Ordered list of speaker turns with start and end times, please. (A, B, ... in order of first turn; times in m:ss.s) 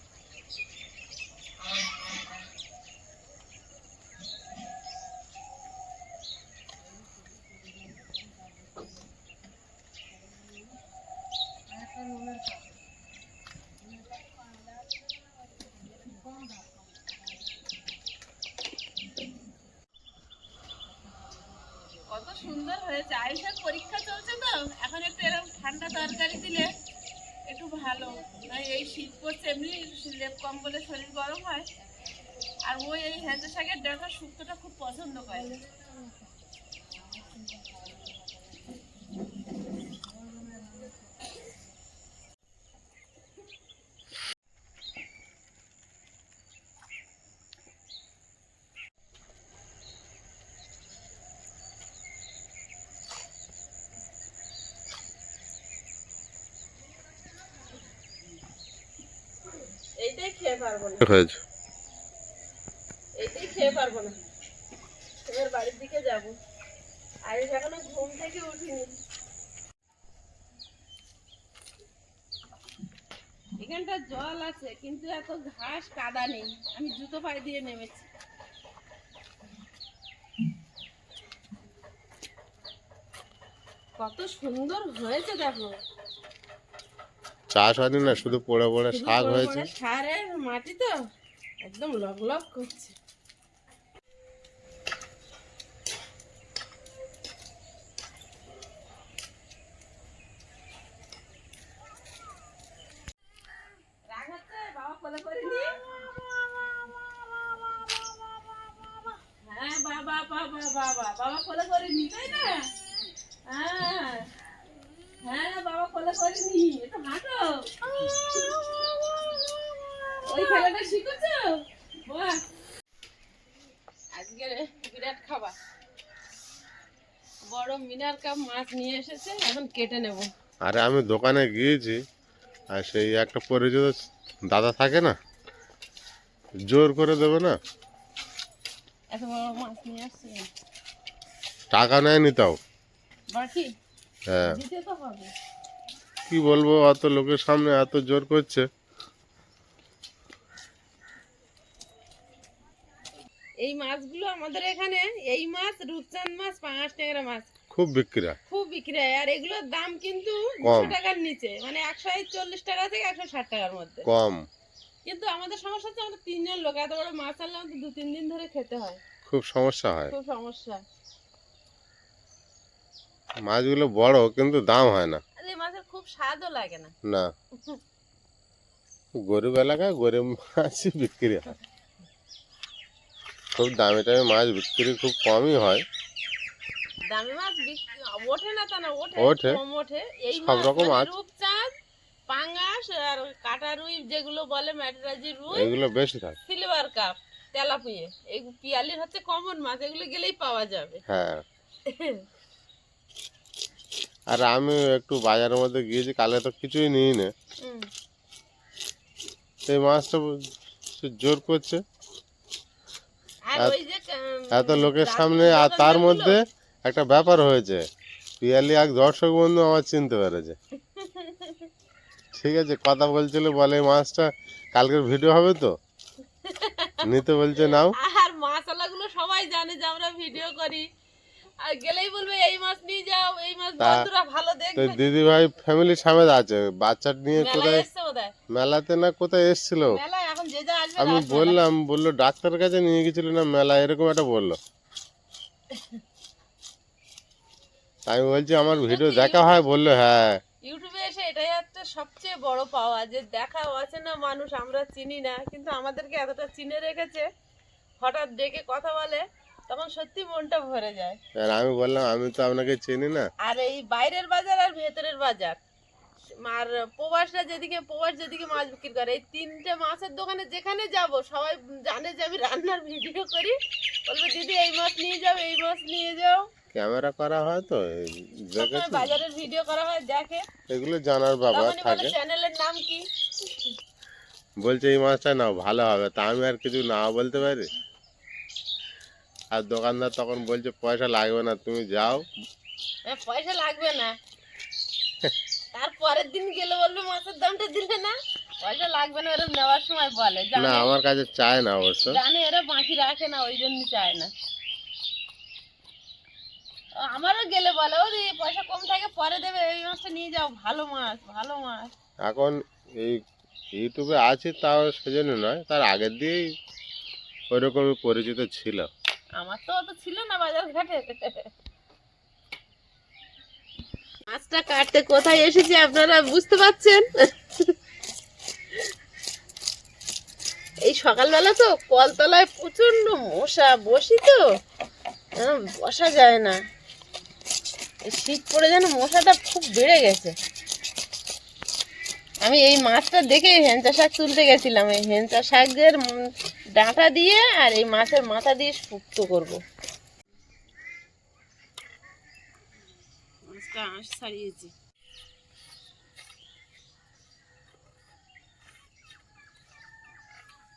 0:12.0-0:12.3 A
0:22.1-0:26.7 A
0:27.5-0:31.7 A
0:32.6-0:35.6 A
1:00.0-1:01.0 A
1:01.0-1:01.4 B
1:03.2-1:04.1 A
1:05.2-1:06.4 A
1:07.2-1:08.9 A
1:13.6-1:18.1 A
1:24.0-1:25.7 A
1:27.5-1:29.7 B
1:28.9-1:31.0 A
1:31.6-1:33.0 A
1:44.1-1:45.7 A
1:49.4-1:52.7 A
1:53.5-1:54.3 A
1:55.2-1:57.7 A
2:00.2-2:02.4 A
2:04.1-2:05.5 A
2:07.5-2:10.3 A
2:10.6-2:12.0 B
2:12.7-2:15.2 B
2:16.6-2:17.6 B
2:19.1-2:20.5 A
2:21.7-2:22.6 B
2:23.3-2:23.7 A
2:24.3-2:24.6 B
2:24.4-2:25.3 A
2:26.3-2:28.6 B
2:33.6-2:37.5 A
2:37.7-2:38.4 B
2:38.5-2:44.1 A
2:40.6-2:40.9 B
2:44.0-2:44.5 B
2:45.0-2:49.0 A
2:49.2-2:50.1 B
2:50.1-2:50.8 A
2:53.4-2:55.2 B
2:55.4-2:56.9 A
2:57.0-2:57.3 B
2:59.2-3:01.5 B
3:03.5-3:05.8 B
3:07.0-3:11.7 A
3:09.2-3:09.6 B
3:10.3-3:11.1 B
3:12.3-3:15.7 A
3:15.5-3:16.4 B
3:16.5-3:21.0 A
3:21.1-3:21.4 B
3:21.9-3:22.2 A
3:24.3-3:27.3 B
3:27.6-3:27.9 A
3:29.7-3:31.8 B
3:33.5-3:36.4 A
3:34.5-3:37.8 B
3:38.4-3:40.6 B
3:40.9-3:41.7 A
3:42.3-3:45.8 B
3:46.4-3:47.1 A
3:47.0-3:47.9 B
3:47.7-3:50.8 A
3:51.6-3:55.0 A
3:53.8-3:54.1 B
3:54.8-3:57.8 B
3:57.3-3:58.3 A
3:58.5-4:00.0 B
3:59.9-4:01.6 A
4:01.0-4:04.6 B
4:05.7-4:06.0 A
4:08.1-4:10.4 B
4:08.9-4:09.6 A
4:10.6-4:17.3 A
4:18.0-4:21.2 A
4:21.4-4:23.3 B
4:23.4-4:25.6 A
4:26.4-4:36.5 A
4:36.7-4:39.2 B
4:38.6-4:40.4 A
4:40.7-4:42.1 B
4:41.5-4:43.0 A
4:44.6-4:47.7 B
4:49.5-4:52.3 B
4:53.0-4:54.2 A
4:55.7-5:00.9 A
5:00.5-5:02.2 B
5:02.0-5:04.3 A
5:07.0-5:11.9 A
5:12.2-5:13.2 B
5:13.7-5:16.4 B
5:17.5-5:18.9 B
5:19.4-5:21.5 A
5:24.3-5:27.1 A
5:30.8-5:34.4 A
5:35.4-5:36.6 A
5:38.0-5:40.3 A
5:42.4-5:49.6 A
5:53.4-5:54.7 A